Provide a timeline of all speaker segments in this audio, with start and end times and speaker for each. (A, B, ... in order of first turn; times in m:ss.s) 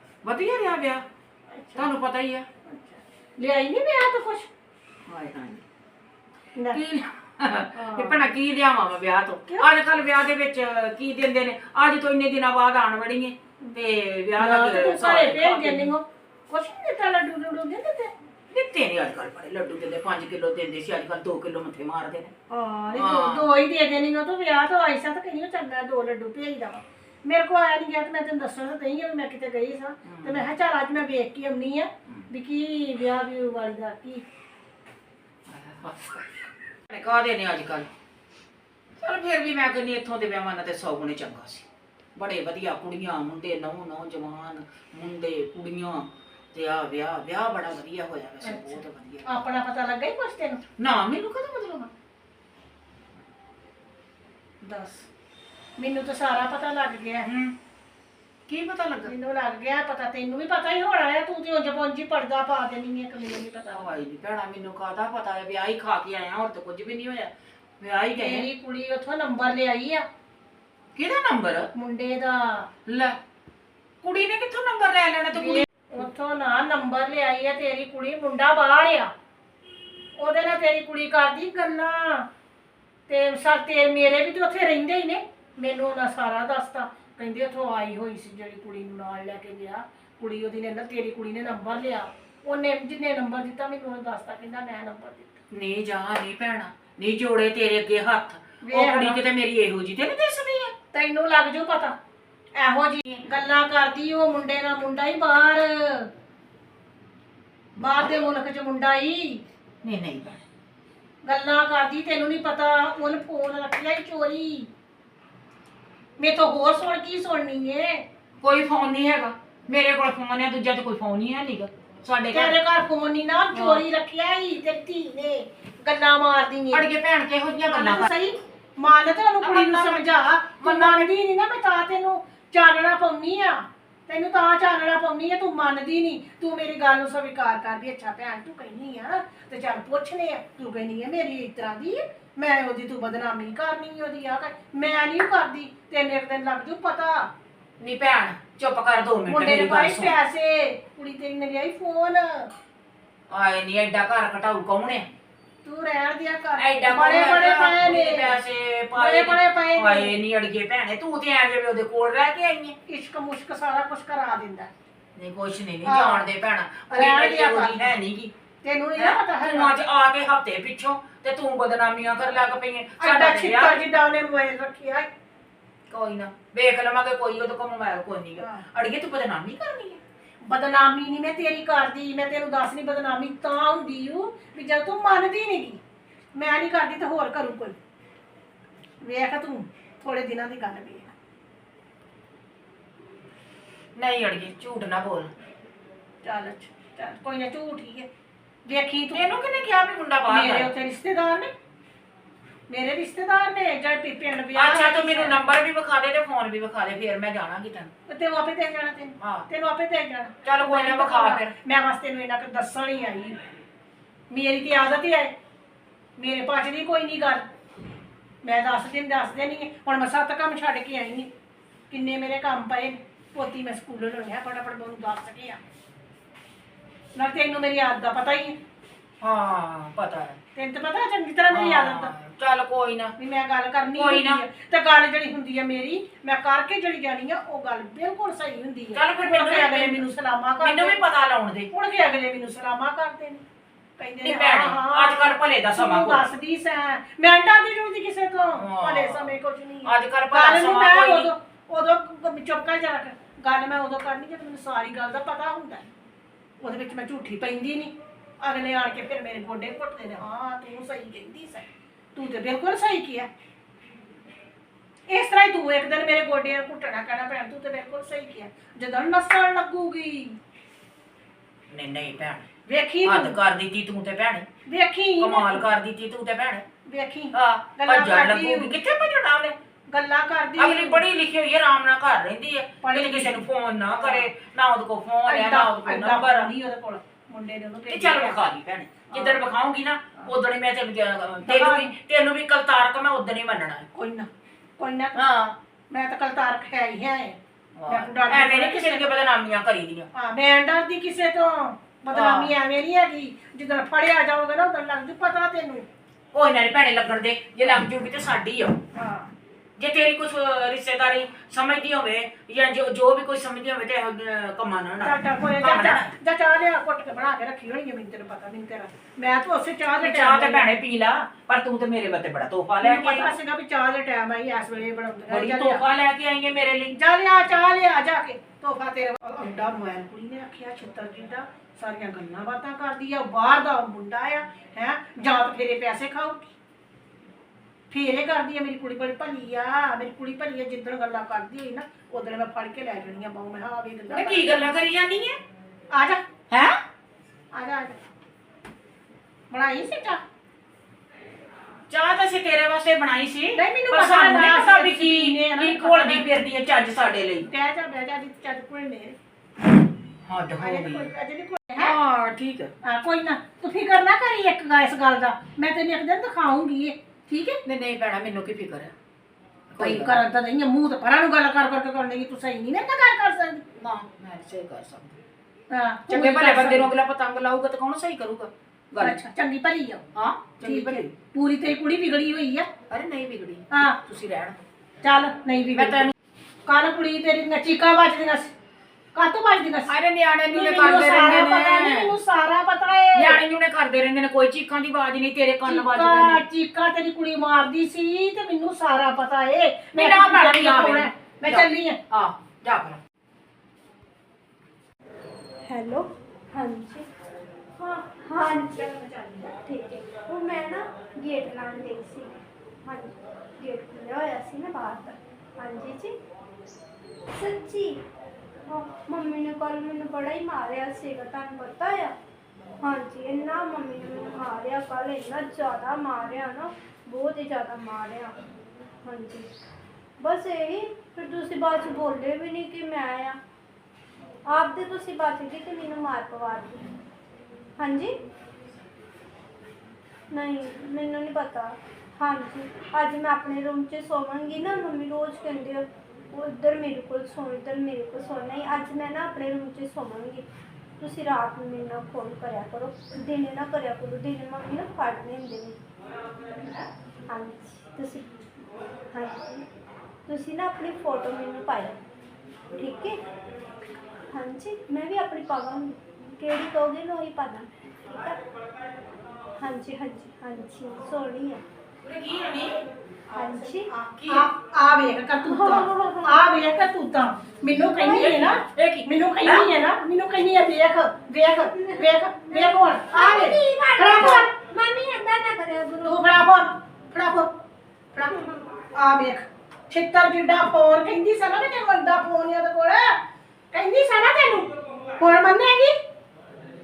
0:00.2-0:01.0 A
0:01.5-0:01.9 B
0:01.8-0:02.4 A
0:02.6-0:04.5 B
0:05.1-0:05.6 A
0:06.7-0:15.9 A
0:07.7-0:08.3 B
0:14.4-0:18.1 B
0:18.5-0:22.3 A
0:22.5-0:34.2 B
0:22.9-0:23.5 A
0:30.0-0:30.4 A
0:35.5-0:36.3 A
0:36.9-0:37.9 A
0:39.0-0:49.3 A
0:48.4-0:50.6 B
0:50.8-0:51.9 A
0:54.6-0:55.1 B
0:55.8-0:57.3 B
0:57.2-0:57.5 A
0:58.5-0:59.1 A
0:59.0-1:03.9 B
1:03.7-1:08.5 A
1:08.2-1:10.0 B
1:10.9-1:11.7 A
1:11.7-1:12.7 B
1:12.8-1:13.2 A
1:14.0-1:15.7 A
1:15.3-1:19.1 B
1:20.2-1:22.2 B
1:23.1-1:35.4 B
1:35.5-1:40.7 A
1:38.6-1:39.2 B
1:40.9-1:41.9 B
1:42.5-1:46.1 B
1:47.8-1:49.4 B
1:49.8-1:50.4 A
1:51.2-1:54.7 B
1:56.2-1:58.0 B
1:58.4-2:02.6 A
2:02.3-2:06.8 B
2:03.5-2:03.8 A
2:06.7-2:08.1 A
2:07.7-2:27.2 B
2:09.4-2:11.1 A
2:27.8-2:30.1 A
2:29.2-2:32.5 B
2:33.3-2:35.0 A
2:35.6-2:38.4 B
2:36.6-2:42.7 A
2:39.0-2:40.2 B
2:42.9-2:44.7 B
2:45.2-2:48.3 A
2:45.8-2:46.3 B
2:46.9-2:47.9 B
2:48.6-2:49.7 B
2:49.0-2:53.8 A
2:53.0-2:55.1 B
2:55.9-3:00.0 A
2:58.4-2:58.6 B
3:00.4-3:05.8 B
3:06.4-3:07.8 B
3:09.0-3:11.1 B
3:13.9-3:15.3 A
3:16.2-3:18.1 B
3:18.6-3:19.2 B
3:19.1-3:20.7 A
3:20.3-3:21.5 B
3:22.7-3:25.4 B
3:24.5-3:27.9 A
3:28.1-3:33.4 B
3:29.2-3:29.4 A
3:30.4-3:31.5 A
3:34.3-3:35.3 B
3:36.2-3:37.4 B
3:38.4-3:41.3 B
3:41.9-3:45.6 B
3:47.1-3:48.6 B
3:49.2-3:50.4 A
3:50.5-3:52.1 B
3:51.5-3:53.1 A
3:53.2-4:01.0 B
3:53.9-3:54.4 A
3:58.9-4:00.0 A
4:00.6-4:01.7 A
4:01.7-4:03.4 B
4:04.0-4:15.9 B
4:04.2-4:06.3 A
4:08.6-4:09.3 A
4:09.8-4:11.3 A
4:16.6-4:23.3 B
4:25.1-4:30.4 B
4:31.7-4:32.5 A
4:32.6-4:33.4 B
4:33.0-4:34.4 A
4:34.7-4:35.6 B
4:35.2-4:36.6 A
4:36.9-4:38.8 B
4:37.3-4:39.5 A
4:39.9-4:41.0 B
4:40.6-4:46.5 A
4:42.8-4:44.3 B
4:45.2-4:48.4 B
4:47.9-4:53.9 A
4:49.1-4:49.4 B
4:51.4-4:51.9 B
4:53.9-4:55.2 B
4:55.2-4:55.5 A
4:55.9-4:59.0 B
4:57.8-5:00.1 A
5:00.1-5:05.8 B
5:02.1-5:02.5 A
5:06.3-5:08.8 A
5:08.9-5:09.3 B
5:09.8-5:16.1 A
5:15.0-5:20.7 B
5:20.0-5:23.3 A
5:22.8-5:25.8 B
5:25.3-5:26.9 A
5:26.9-5:36.5 B
5:37.9-5:44.6 B
5:44.1-5:45.4 A
5:45.9-5:46.2 B
5:46.5-5:46.8 A
5:47.5-5:48.0 B
5:49.5-5:50.2 B
5:51.9-5:57.5 A
5:53.5-5:56.3 B
5:57.5-5:59.2 B
6:00.3-6:01.1 A
6:00.6-6:01.9 B
6:01.8-6:02.7 A
6:02.8-6:07.6 B
6:07.6-6:08.9 A
6:09.7-6:10.2 A
6:09.8-6:13.6 B
6:13.8-6:15.2 A
6:15.7-6:16.9 B
6:16.1-6:19.2 A
6:19.0-6:20.0 B
6:20.1-6:21.1 A
6:20.6-6:22.7 B
6:22.9-6:24.6 A
6:23.7-6:24.0 B
6:25.0-6:26.1 B
6:25.8-6:26.1 A
6:26.6-6:28.5 B
6:29.1-6:29.9 B
6:29.9-6:32.1 A
6:30.5-6:33.4 B
6:33.1-6:36.4 A
6:35.6-6:42.0 B
6:39.9-6:43.0 A
6:45.7-6:47.0 C
6:47.9-6:48.9 C
6:48.7-6:49.5 B
6:49.6-6:52.3 C
6:52.8-6:56.1 C
6:57.3-6:58.0 C
6:58.7-7:02.1 C
7:02.8-7:08.4 C
7:09.0-7:09.4 C
7:10.2-7:13.4 C
7:14.5-7:16.8 C
7:17.8-7:18.1 C
7:20.3-7:30.4 C
7:31.0-7:35.8 C
7:37.3-7:38.2 C
7:39.1-7:39.6 C
7:40.3-7:42.0 C
7:42.8-7:43.1 C
7:44.3-7:48.4 C
7:49.6-7:51.6 C
7:52.0-7:52.8 A
7:53.3-7:53.7 B
7:53.3-7:53.9 C
7:53.9-7:54.5 A
7:54.2-8:04.5 B
7:55.6-7:56.3 C
7:58.1-7:59.7 A
8:01.7-8:06.4 C
8:06.0-8:07.5 B
8:08.2-8:13.1 B
8:13.7-8:16.0 B